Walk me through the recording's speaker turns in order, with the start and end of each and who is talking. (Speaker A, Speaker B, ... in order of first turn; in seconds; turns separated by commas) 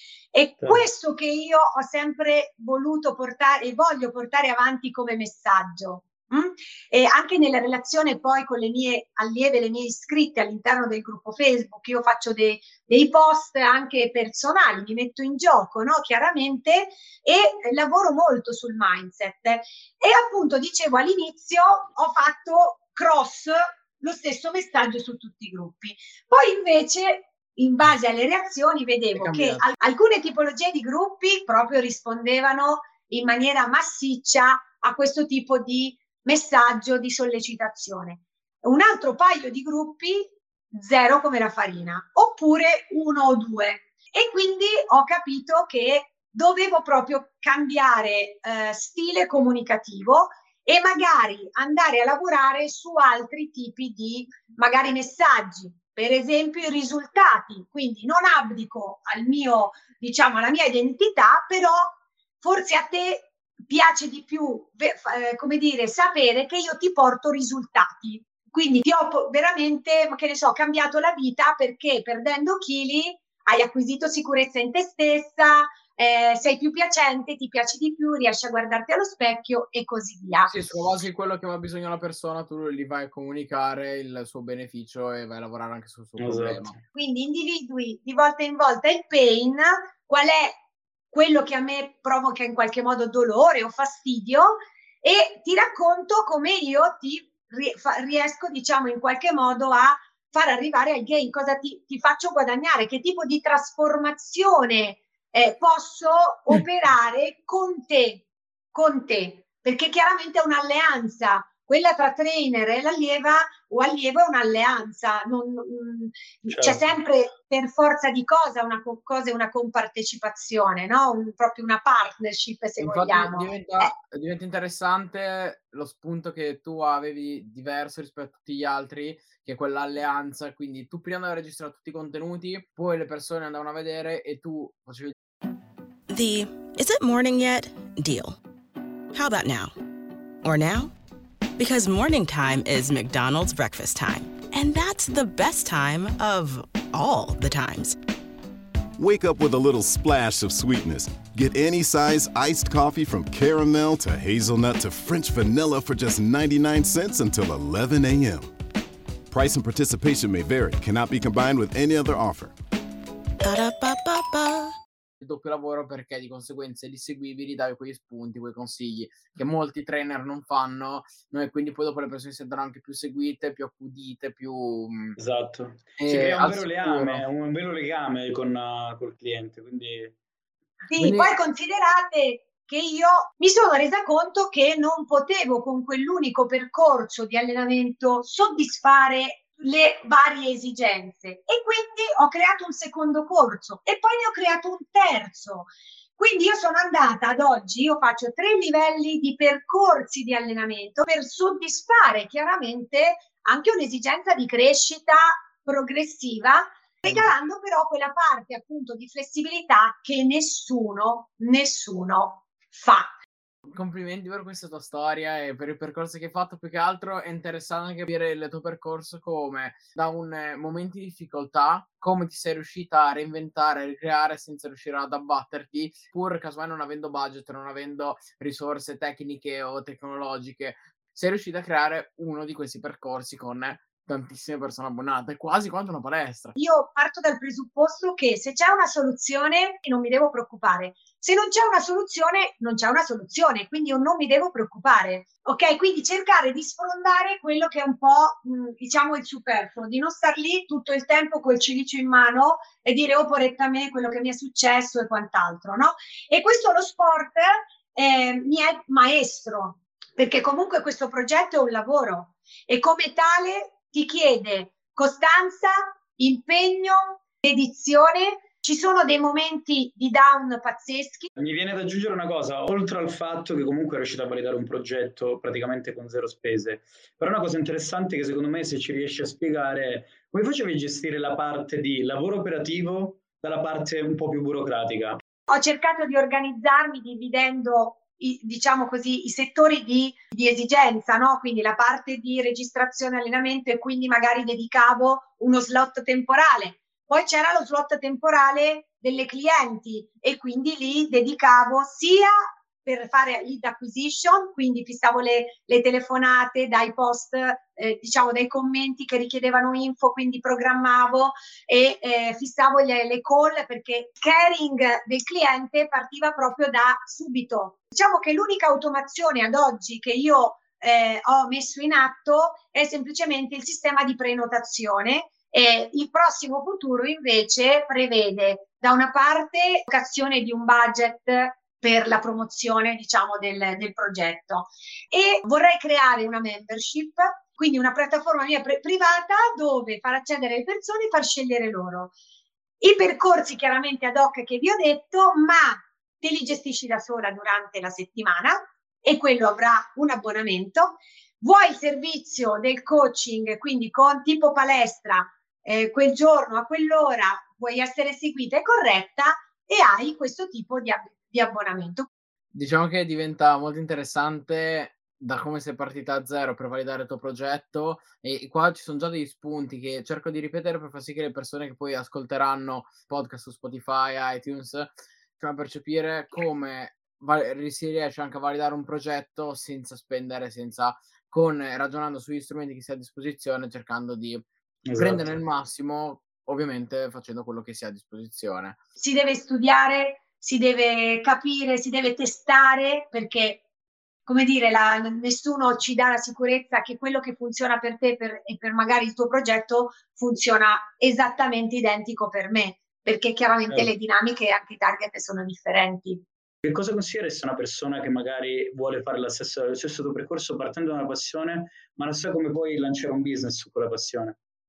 Speaker A: 0.3-80.5, Speaker B: 29.2-29.6, Speaker B: 80.5-86.7, Speaker C: 86.2-86.8, Speaker A: 86.9-90.6, Speaker A: 91.1-124.0, Speaker C: 116.5-116.9, Speaker B: 122.8-135.1, Speaker D: 136.1-138.4, Speaker D: 139.1-139.7, Speaker D: 140.4-140.9, Speaker D: 141.6-148.0, Speaker E: 149.0-158.5, Speaker E: 159.3-162.5, Speaker D: 163.4-164.7, Speaker B: 165.2-175.2, Speaker C: 175.2-180.2, Speaker B: 176.0-177.2, Speaker A: 180.9-213.1, Speaker B: 181.0-181.3, Speaker B: 213.7-236.6, Speaker A: 236.6-271.3, Speaker C: 271.4-285.2, Speaker A: 285.5-342.1, Speaker A: 342.8-362.1, Speaker B: 362.5-388.8, Speaker C: 384.9-385.3, Speaker A: 389.0-393.6, Speaker A: 394.3-406.2, Speaker C: 406.6-414.4